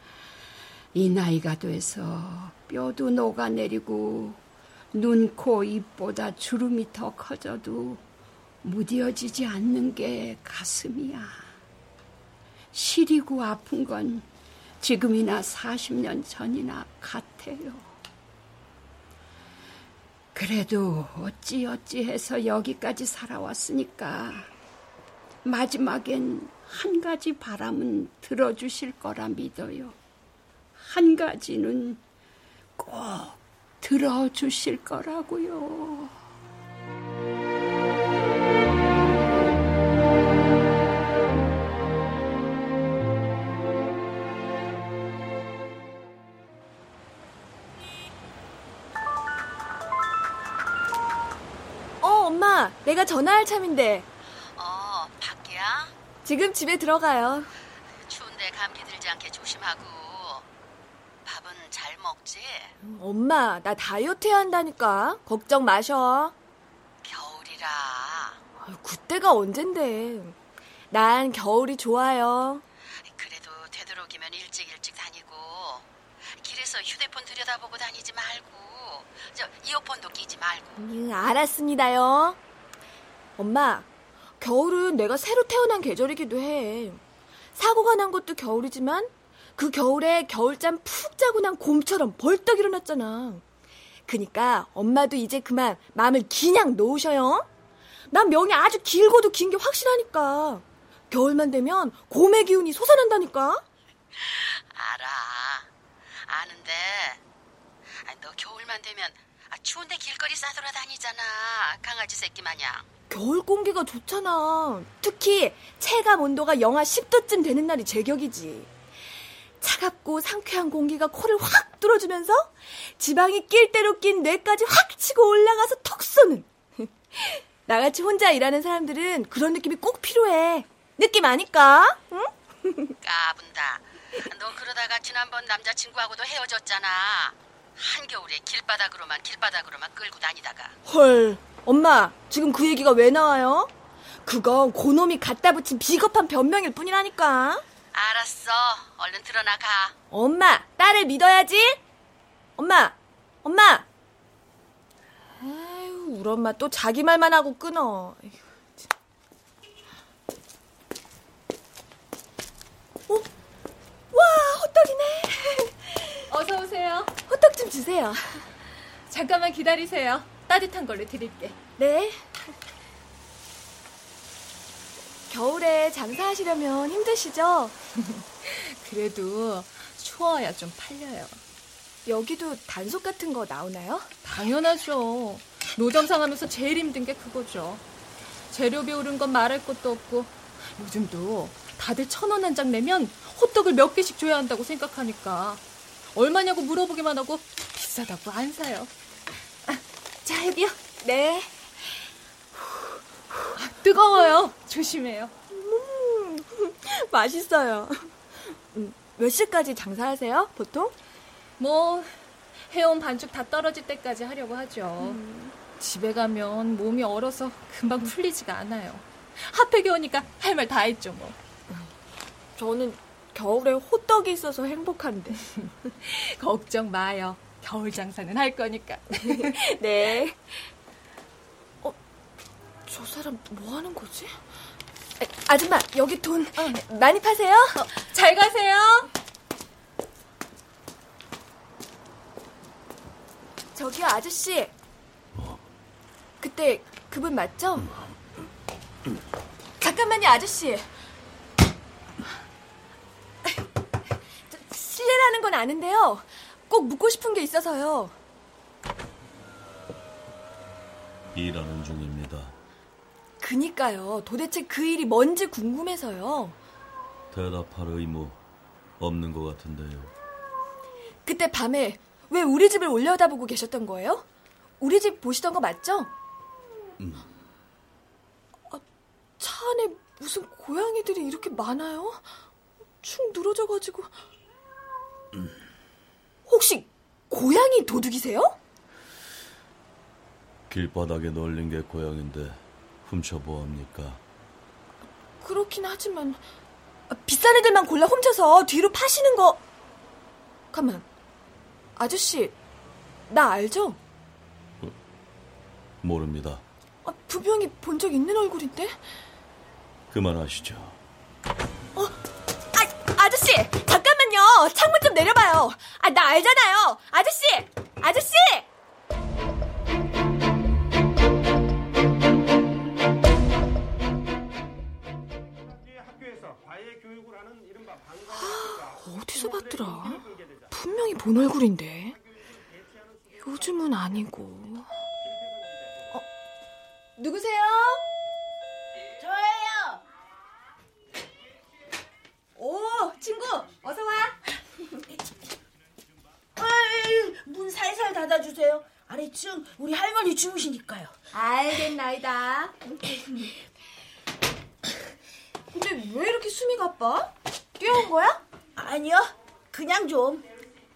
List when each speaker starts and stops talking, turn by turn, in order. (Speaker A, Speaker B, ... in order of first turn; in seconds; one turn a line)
Speaker A: 0.9-4.4
Speaker A: 4.9-8.0
Speaker A: 8.6-11.4
Speaker A: 12.7-14.3
Speaker A: 14.8-17.9
Speaker A: 20.3-24.5
Speaker A: 25.4-30.0
Speaker A: 30.8-32.0
Speaker A: 32.8-36.1
Speaker B: 52.0-54.1
Speaker C: 54.6-55.9
Speaker B: 56.2-57.5
Speaker C: 58.0-60.4
Speaker C: 61.2-62.7
Speaker B: 62.8-66.3
Speaker C: 67.0-68.4
Speaker B: 68.6-70.3
Speaker B: 70.9-72.6
Speaker C: 73.1-80.8
Speaker B: 80.8-82.4
Speaker B: 83.4-83.9
Speaker B: 84.4-87.0
Speaker B: 87.5-93.4
Speaker B: 94.1-97.5
Speaker B: 98.1-103.6
Speaker C: 104.2-105.7
Speaker C: 106.3-107.2
Speaker C: 108.0-112.8
Speaker B: 113.1-118.7
Speaker B: 119.6-132.9
Speaker C: 133.0-140.8
Speaker B: 140.9-143.7
Speaker B: 144.2-147.6
Speaker C: 147.9-149.9
Speaker B: 150.1-151.8
Speaker B: 152.6-153.8
Speaker B: 155.4-158.4
Speaker B: 164.1-166.2
Speaker D: 166.3-167.1
Speaker B: 167.3-168.4
Speaker D: 169.1-171.6
Speaker B: 171.8-172.3
Speaker B: 175.3-177.8
Speaker D: 178.4-181.4
Speaker B: 182.1-184.1
Speaker D: 184.2-187.8
Speaker D: 188.5-195.6
Speaker D: 196.1-198.9
Speaker B: 200.2-201.7
Speaker D: 203.6-205.3
Speaker B: 205.5-208.1
Speaker B: 208.7-210.9
Speaker D: 211.6-221.4
Speaker B: 215.0-215.5
Speaker B: 222.6-225.6
Speaker D: 226.0-229.6
Speaker B: 229.2-230.5
Speaker B: 232.9-234.4
Speaker B: 235.2-237.8
Speaker D: 237.8-239.1
Speaker B: 243.8-244.7
Speaker B: 246.4-247.9
Speaker B: 249.8-250.9
Speaker B: 254.5-258.1
Speaker E: 261.3-262.6
Speaker B: 263.4-266.6
Speaker E: 267.3-268.4
Speaker E: 269.0-270.1
Speaker B: 271.3-274.2
Speaker B: 274.8-276.1
Speaker E: 277.0-277.3
Speaker B: 279.4-282.2
Speaker B: 283.0-284.1
Speaker B: 286.5-288.6
Speaker E: 290.7-294.2
Speaker B: 295.4-296.4
Speaker B: 297.1-299.6
Speaker B: 300.7-301.1
Speaker B: 302.0-302.5
Speaker B: 303.3-304.0
Speaker E: 306.0-306.6
Speaker B: 307.1-309.0
Speaker E: 310.1-311.0
Speaker B: 312.7-318.7
Speaker B: 328.3-332.2
Speaker B: 333.4-334.9
Speaker B: 337.2-338.1
Speaker F: 339.2-340.0
Speaker B: 342.6-344.4
Speaker F: 346.6-351.1
Speaker B: 351.3-353.0
Speaker B: 355.7-358.4
Speaker F: 358.8-360.4